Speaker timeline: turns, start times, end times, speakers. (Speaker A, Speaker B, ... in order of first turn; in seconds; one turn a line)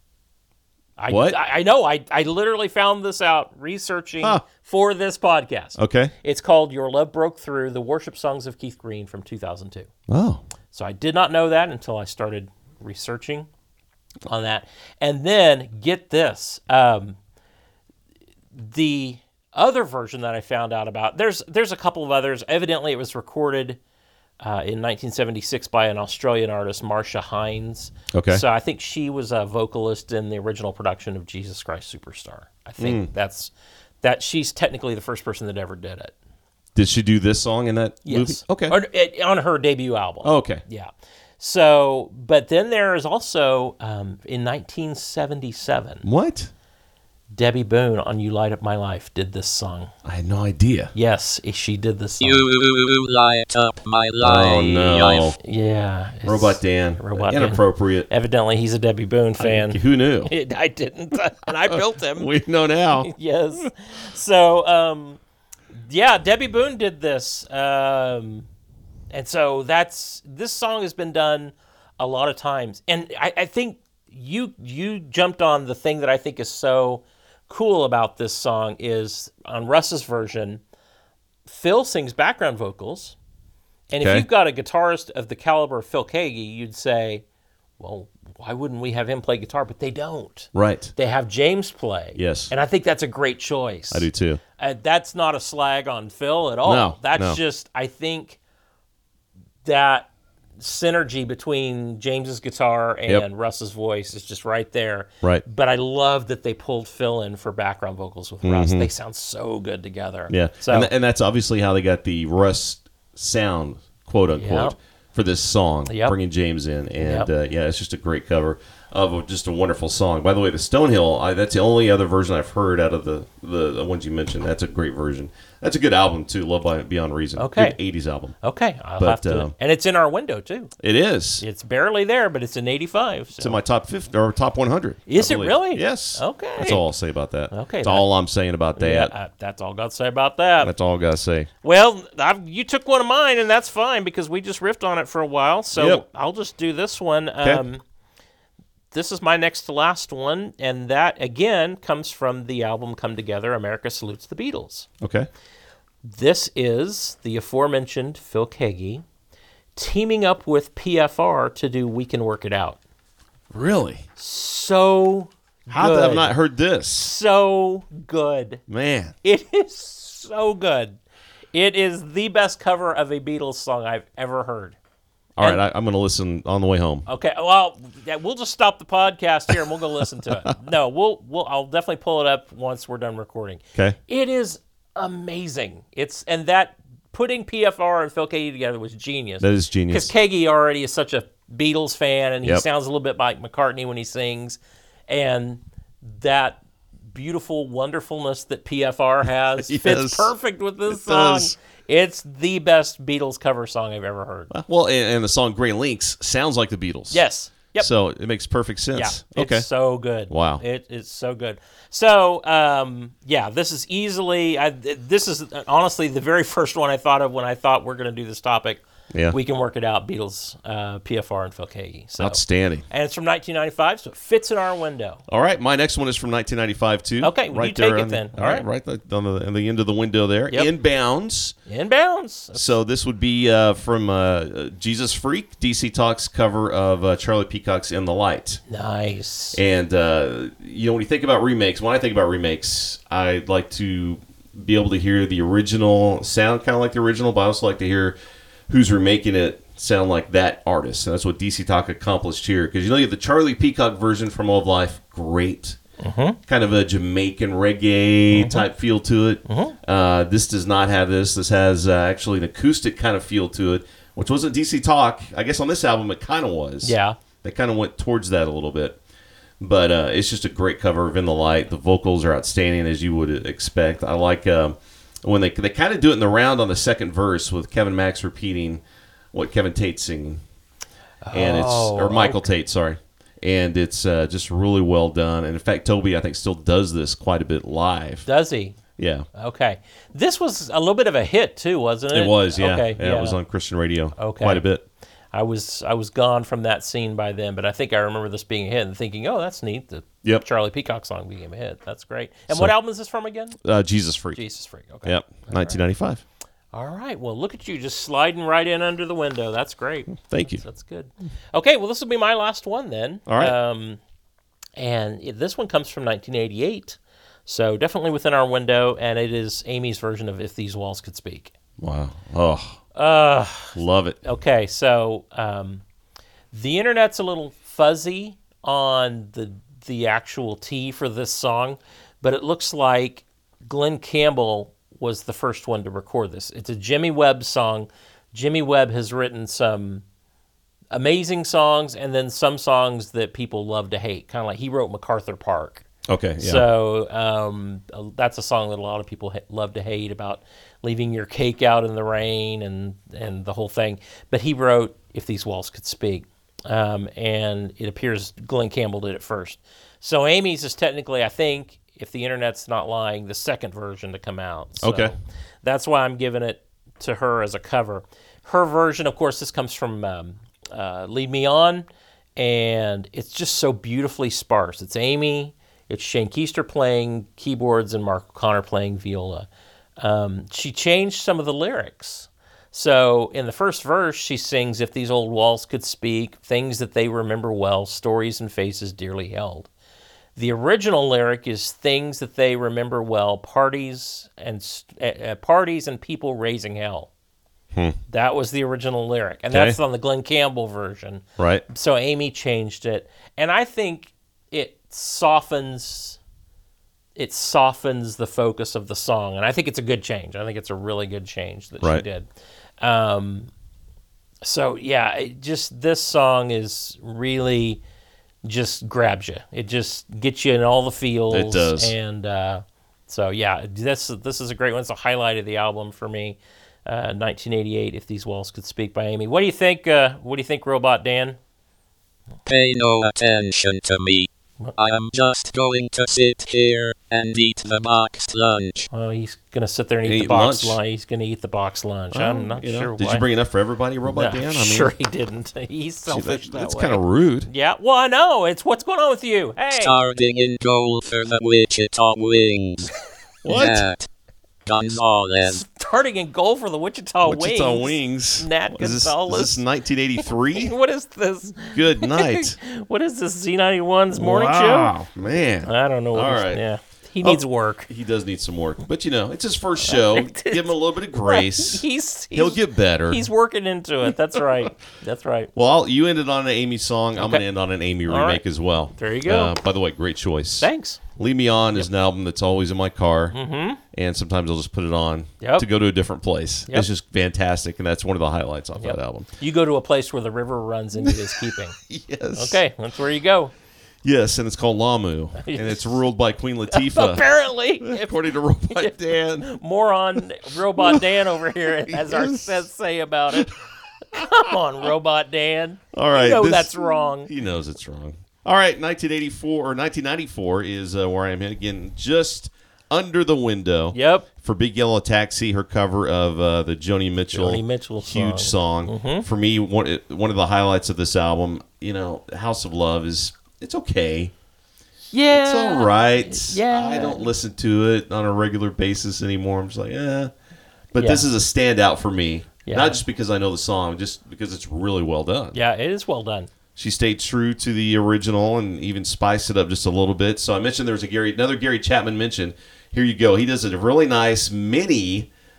Speaker A: 1.0-9.9
Speaker B: 1.1-1.4
Speaker B: 5.8-6.1
Speaker B: 10.1-10.4
Speaker A: 10.7-13.5
Speaker A: 14.2-17.2
Speaker A: 18.5-23.8
Speaker A: 24.4-33.5
Speaker B: 28.1-28.4
Speaker B: 32.8-33.1
Speaker A: 34.0-36.1
Speaker B: 36.7-38.8
Speaker A: 38.0-46.0
Speaker B: 40.2-40.6
Speaker B: 46.0-46.5
Speaker A: 47.3-49.9
Speaker B: 50.0-50.9
Speaker A: 50.9-52.4
Speaker C: 52.2-55.3
Speaker B: 54.2-55.4
Speaker A: 55.4-62.3
Speaker B: 56.2-58.1
Speaker B: 59.4-60.3
Speaker B: 61.7-63.1
Speaker A: 63.0-65.2
Speaker A: 65.7-68.5
Speaker A: 69.1-80.6
Speaker A: 81.5-83.2
Speaker A: 83.9-87.2
Speaker B: 84.0-84.2
Speaker A: 87.8-98.4
Speaker B: 90.5-90.9
Speaker B: 92.2-92.5
Speaker B: 93.9-94.4
Speaker B: 96.6-97.4
Speaker A: 99.6-100.1
Speaker A: 100.6-110.9
Speaker B: 108.4-108.9
Speaker B: 110.3-128.3
Speaker A: 114.4-114.7
Speaker A: 115.9-116.2
Speaker A: 117.0-117.3
Speaker A: 127.4-127.8
Speaker A: 128.4-130.7
Speaker B: 129.0-129.5
Speaker B: 130.8-131.4
Speaker A: 131.4-133.6
Speaker B: 133.4-139.1
Speaker A: 135.1-136.8
Speaker A: 137.5-138.1
Speaker A: 138.8-140.7
Speaker B: 140.6-141.5
Speaker A: 141.6-147.8
Speaker B: 145.8-146.0
Speaker A: 148.9-154.9
Speaker B: 155.0-155.3
Speaker A: 156.0-159.0
Speaker A: 159.8-162.8
Speaker B: 163.5-164.0
Speaker A: 164.2-166.3
Speaker B: 165.7-167.1
Speaker A: 167.0-168.6
Speaker B: 168.7-169.1
Speaker A: 169.2-171.0
Speaker A: 171.5-174.8
Speaker B: 175.4-177.1
Speaker A: 177.1-196.6
Speaker B: 189.4-190.1
Speaker A: 197.1-204.5
Speaker B: 199.6-200.3
Speaker B: 200.9-201.5
Speaker B: 204.5-207.2
Speaker A: 207.1-207.9
Speaker B: 207.8-209.7
Speaker A: 208.9-225.2
Speaker B: 210.3-210.6
Speaker B: 219.1-219.4
Speaker B: 222.2-222.8
Speaker B: 225.3-231.5
Speaker A: 227.2-228.6
Speaker A: 231.7-232.8
Speaker B: 232.5-238.6
Speaker A: 238.7-239.6
Speaker B: 239.5-248.1
Speaker B: 248.7-255.8
Speaker A: 256.0-256.4
Speaker B: 256.5-269.0
Speaker A: 258.3-258.7
Speaker A: 259.4-259.8
Speaker A: 266.8-267.2
Speaker B: 269.6-278.8
Speaker B: 279.3-280.4
Speaker A: 281.2-282.5
Speaker B: 281.3-288.3
Speaker A: 288.2-288.8
Speaker B: 289.0-289.3
Speaker A: 289.3-293.4
Speaker B: 292.1-294.8
Speaker A: 294.2-294.6
Speaker A: 295.3-303.6
Speaker B: 303.6-304.4
Speaker A: 304.3-305.8
Speaker B: 305.0-306.2
Speaker A: 306.7-314.0
Speaker B: 310.1-310.6
Speaker B: 313.3-313.5
Speaker A: 314.8-321.5
Speaker B: 321.8-322.8
Speaker A: 322.9-325.8
Speaker B: 323.7-324.2
Speaker A: 326.5-340.0
Speaker A: 340.9-345.9
Speaker B: 346.1-346.6
Speaker A: 346.4-371.9
Speaker B: 364.8-365.1
Speaker A: 372.4-379.5
Speaker A: 380.0-389.7
Speaker A: 390.4-397.1
Speaker A: 398.1-406.2
Speaker B: 399.5-399.8
Speaker B: 401.4-401.6
Speaker A: 407.1-412.3
Speaker A: 412.8-413.5
Speaker A: 414.4-417.8
Speaker A: 418.4-431.4
Speaker B: 421.3-421.9
Speaker C: 432.4-438.9
Speaker A: 438.9-443.2
Speaker B: 440.0-440.8
Speaker B: 442.1-444.9
Speaker A: 444.1-449.9
Speaker B: 446.1-447.5
Speaker C: 449.8-452.9
Speaker B: 453.4-453.8
Speaker C: 453.5-454.1
Speaker C: 454.6-455.6
Speaker A: 455.5-459.6
Speaker B: 457.2-460.7
Speaker A: 460.5-464.9
Speaker B: 461.7-462.6
Speaker B: 464.1-466.6
Speaker A: 465.6-467.9
Speaker B: 467.2-473.3
Speaker A: 469.8-475.5
Speaker B: 475.5-483.4
Speaker A: 477.1-477.4
Speaker A: 478.1-478.4
Speaker A: 478.9-479.5
Speaker A: 480.6-481.0
Speaker A: 483.3-483.8
Speaker B: 483.9-489.3
Speaker A: 485.4-485.6
Speaker A: 488.8-491.7
Speaker B: 491.8-492.6
Speaker A: 492.4-493.5
Speaker B: 494.0-497.2
Speaker A: 495.4-496.0
Speaker A: 496.7-503.6
Speaker B: 497.8-499.5
Speaker B: 500.8-501.0
Speaker B: 501.9-502.7
Speaker B: 503.3-503.5
Speaker A: 504.1-507.3
Speaker B: 504.1-504.5
Speaker B: 505.9-524.3
Speaker A: 513.9-514.3
Speaker A: 517.3-519.2
Speaker A: 525.1-527.3
Speaker B: 525.3-530.3
Speaker B: 530.9-535.6
Speaker A: 531.0-531.2
Speaker A: 532.6-533.0
Speaker A: 535.5-536.5
Speaker B: 536.8-545.3